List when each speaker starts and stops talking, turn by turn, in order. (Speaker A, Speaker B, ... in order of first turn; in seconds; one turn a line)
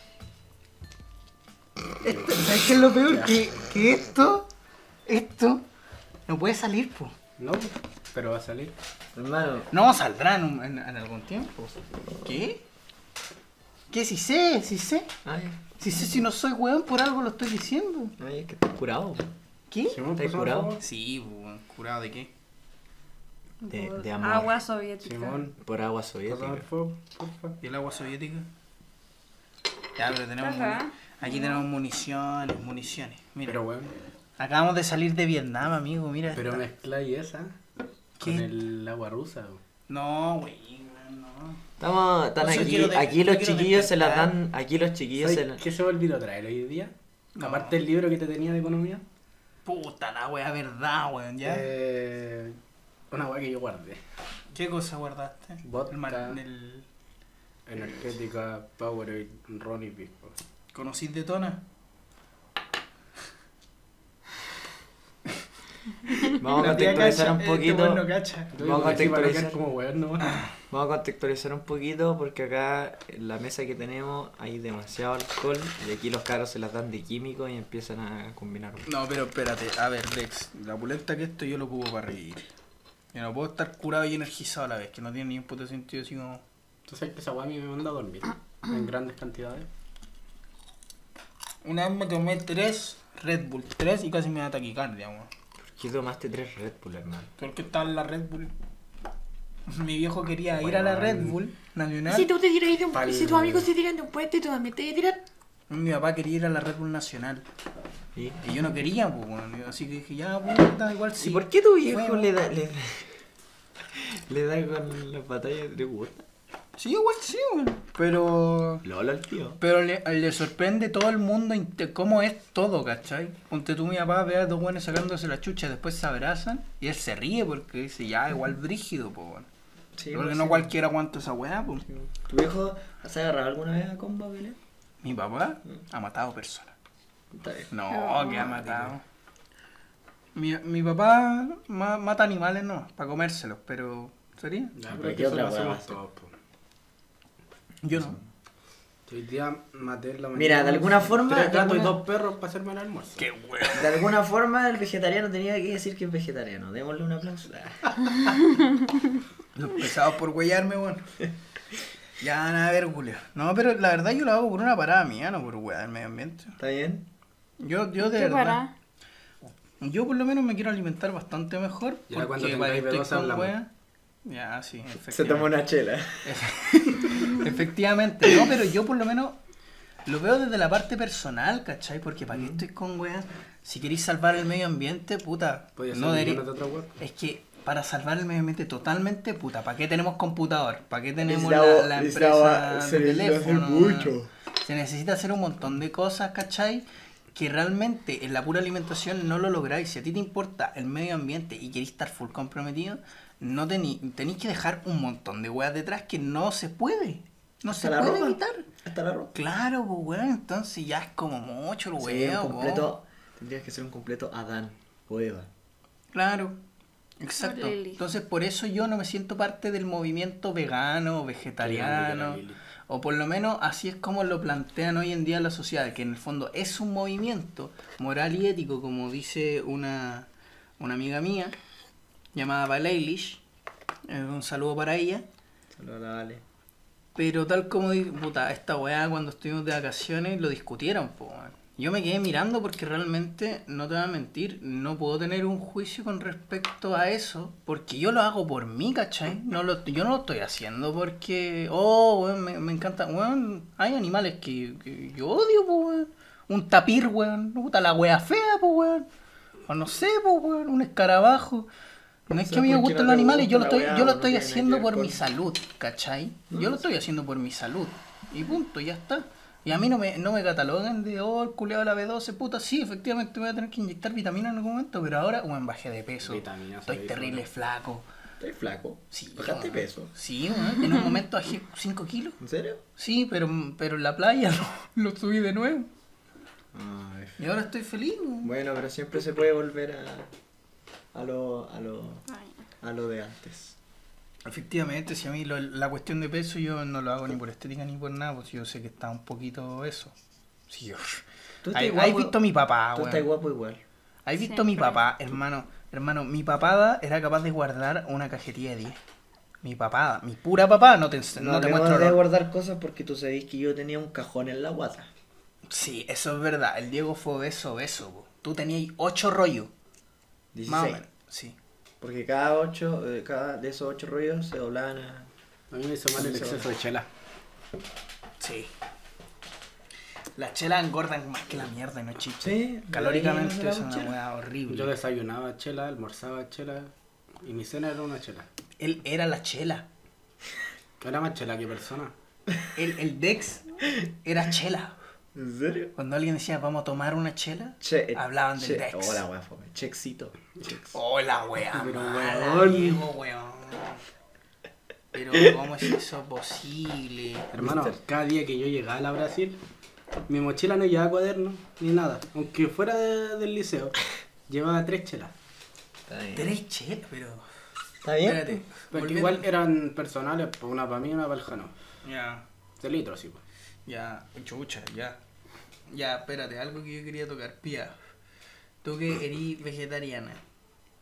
Speaker A: 1.9-4.5
Speaker B: 2.0-3.5
Speaker A: 5.0-5.6
Speaker A: 6.3-7.1
Speaker B: 7.4-8.7
Speaker C: 9.1-9.7
Speaker A: 9.7-12.6
Speaker A: 13.9-15.1
Speaker C: 15.2-16.3
Speaker A: 15.8-18.1
Speaker C: 18.2-19.3
Speaker A: 19.7-20.0
Speaker B: 19.9-20.8
Speaker C: 20.1-20.8
Speaker A: 20.8-22.3
Speaker D: 23.6-25.5
Speaker C: 23.7-24.6
Speaker B: 25.0-25.6
Speaker C: 25.6-26.7
Speaker B: 26.3-27.6
Speaker A: 27.6-28.5
Speaker A: 30.0-33.6
Speaker D: 30.4-31.6
Speaker B: 33.4-33.9
Speaker A: 34.4-36.6
Speaker B: 36.3-37.5
Speaker B: 38.2-39.6
Speaker A: 38.2-38.5
Speaker A: 39.9-41.6
Speaker C: 41.8-45.6
Speaker A: 42.4-44.3
Speaker B: 45.2-49.0
Speaker A: 47.3-47.8
Speaker A: 49.6-51.7
Speaker B: 51.4-52.6
Speaker B: 53.1-54.0
Speaker A: 54.5-56.9
Speaker B: 55.6-56.4
Speaker B: 57.7-60.4
Speaker A: 60.7-61.6
Speaker A: 66.0-68.6
Speaker C: 66.3-68.0
Speaker B: 68.5-70.4
Speaker C: 68.6-69.6
Speaker C: 70.7-78.9
Speaker A: 78.8-82.5
Speaker A: 83.1-86.4
Speaker B: 86.9-89.7
Speaker A: 91.6-95.3
Speaker C: 95.6-97.3
Speaker A: 97.4-98.5
Speaker A: 99.7-102.4
Speaker C: 100.5-101.4
Speaker E: 102.2-105.2
Speaker B: 102.9-103.7
Speaker A: 105.7-107.4
Speaker C: 108.1-108.4
Speaker A: 108.4-112.3
Speaker C: 111.2-113.2
Speaker C: 113.9-116.2
Speaker A: 116.8-118.8
Speaker C: 118.8-119.6
Speaker A: 119.6-129.5
Speaker C: 130.0-130.7
Speaker A: 130.1-131.8
Speaker C: 132.0-134.6
Speaker A: 135.0-136.7
Speaker C: 137.3-137.7
Speaker A: 137.7-139.0
Speaker D: 137.9-138.6
Speaker C: 138.4-138.9
Speaker A: 140.3-144.7
Speaker B: 144.7-146.3
Speaker C: 144.9-146.0
Speaker A: 147.8-148.2
Speaker C: 147.9-148.2
Speaker B: 149.1-153.2
Speaker C: 150.3-152.0
Speaker A: 153.2-154.1
Speaker C: 153.7-157.9
Speaker A: 159.5-161.1
Speaker A: 162.2-166.5
Speaker C: 166.6-167.1
Speaker A: 167.6-168.6
Speaker D: 168.0-168.7
Speaker A: 169.8-173.7
Speaker B: 172.1-173.5
Speaker A: 174.2-175.5
Speaker C: 175.0-177.3
Speaker A: 176.2-179.4
Speaker A: 180.1-186.4
Speaker C: 182.3-182.6
Speaker B: 185.8-186.9
Speaker A: 187.0-208.7
Speaker C: 191.2-194.3
Speaker C: 207.7-209.3
Speaker A: 209.3-212.9
Speaker C: 212.0-215.5
Speaker A: 216.1-216.6
Speaker A: 217.2-230.3
Speaker D: 217.4-218.0
Speaker B: 221.6-222.6
Speaker A: 230.8-231.5
Speaker A: 232.3-233.4
Speaker A: 234.1-235.2
Speaker C: 235.7-236.4
Speaker A: 237.2-259.1
Speaker A: 259.7-261.7
Speaker A: 262.3-278.1
Speaker C: 262.4-265.3
Speaker C: 266.5-266.8
Speaker B: 276.2-277.4
Speaker C: 278.4-280.1
Speaker A: 279.1-282.4
Speaker C: 282.4-282.8
Speaker A: 282.9-285.9
Speaker C: 286.7-287.4
Speaker A: 287.4-288.5
Speaker C: 288.4-290.3
Speaker C: 291.1-292.3
Speaker D: 292.3-292.6
Speaker C: 292.8-293.8
Speaker A: 294.4-300.1
Speaker A: 300.7-303.3
Speaker C: 301.6-302.4
Speaker C: 302.9-303.8
Speaker A: 304.2-309.0
Speaker D: 304.3-305.0
Speaker A: 309.6-312.2
Speaker C: 311.3-315.1
Speaker A: 315.7-319.7
Speaker C: 320.5-321.0
Speaker A: 320.7-321.6
Speaker C: 322.0-325.3
Speaker B: 325.7-327.1
Speaker C: 326.1-326.7
Speaker A: 328.4-328.7
Speaker A: 330.3-334.9
Speaker C: 332.4-334.2
Speaker B: 334.7-336.9
Speaker B: 337.4-338.5
Speaker A: 338.8-339.9
Speaker B: 341.0-342.1
Speaker A: 342.7-344.9
Speaker C: 345.3-345.9
Speaker A: 345.9-349.2
Speaker C: 347.8-351.0
Speaker A: 350.9-354.0
Speaker B: 351.7-352.7
Speaker C: 352.3-353.1
Speaker A: 355.1-357.5
Speaker B: 357.5-359.6
Speaker C: 357.6-358.0
Speaker B: 360.3-365.3
Speaker C: 366.1-366.6
Speaker A: 366.3-367.4
Speaker C: 368.0-368.5
Speaker A: 368.2-369.5
Speaker B: 368.9-371.7
Speaker A: 372.0-372.4
Speaker B: 372.8-373.4
Speaker A: 373.9-375.2
Speaker A: 375.9-377.9
Speaker A: 378.8-380.4